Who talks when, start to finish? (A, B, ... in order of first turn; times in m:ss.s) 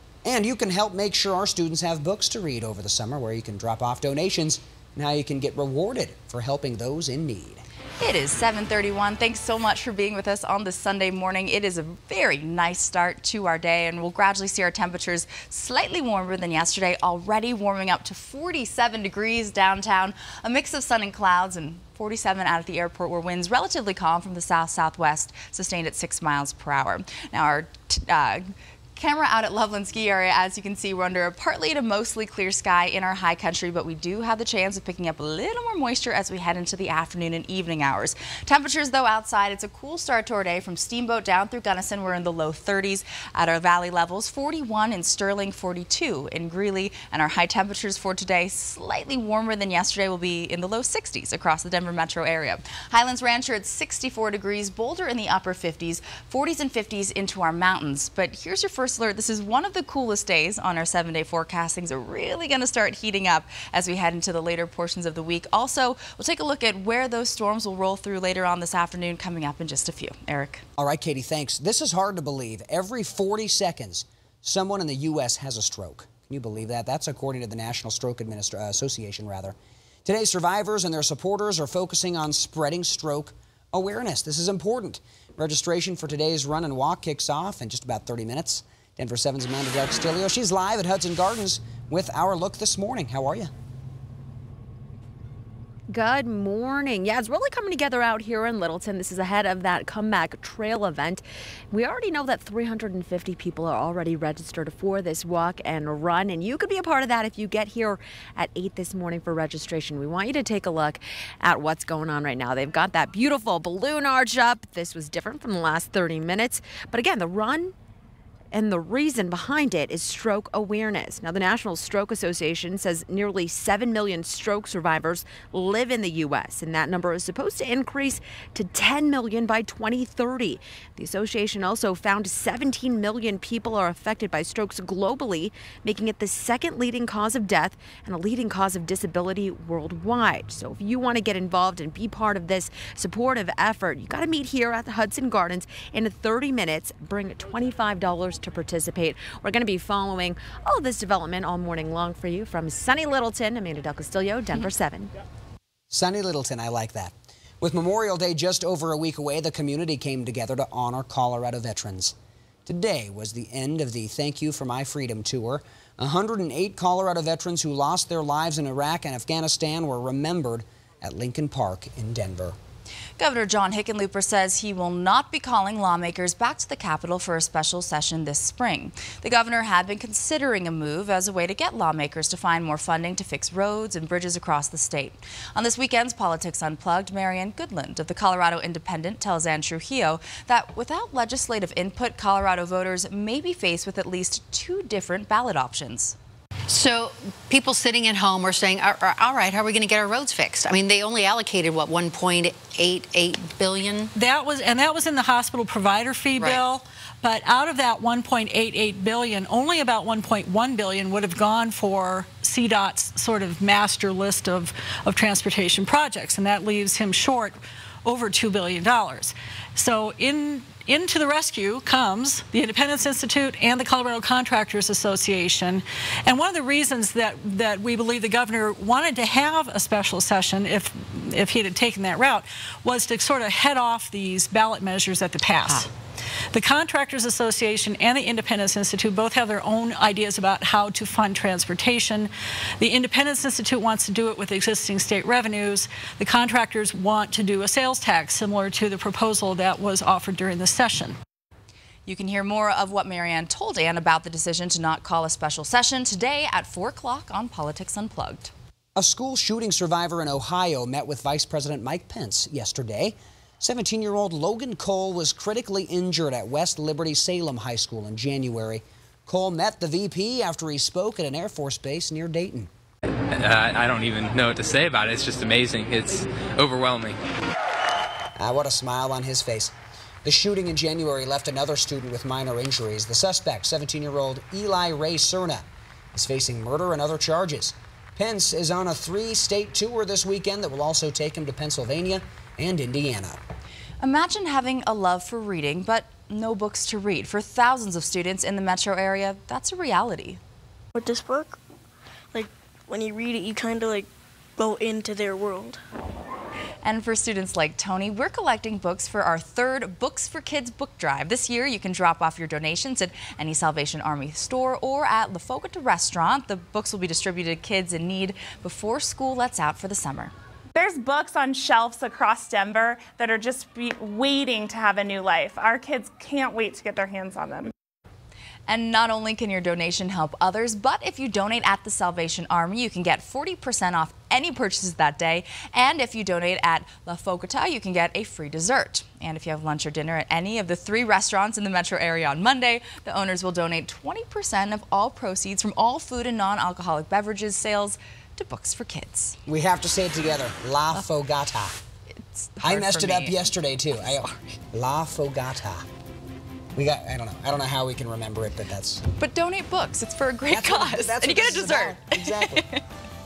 0:00.2-0:07.6 A
0:08.0-1:10.6 B
1:10.8-1:33.5 A
1:35.9-1:57.7 C
1:58.5-2:35.1 C
2:35.9-2:42.1 A
2:42.6-2:52.6 A
2:53.2-3:16.2 B
3:16.7-3:17.0 D
3:17.5-3:23.9 D
3:24.1-3:55.9 E
3:56.5-4:11.2 E
4:12.0-4:18.5 B
4:19.0-4:32.7 A
4:33.3-4:37.2 F
4:38.4-4:39.7 A
4:40.2-4:53.4 A
4:54.0-5:00.4 B
5:00.9-5:01.6 G
5:02.3-5:05.8 G
5:06.8-5:20.3 B
5:20.7-5:27.7 H
5:28.7-5:49.4 B
5:49.4-5:51.8 A
5:52.3-5:54.4 B
5:52.6-5:55.8 A
5:56.7-5:59.0 A
5:59.1-6:02.8 B
6:00.5-6:02.6 A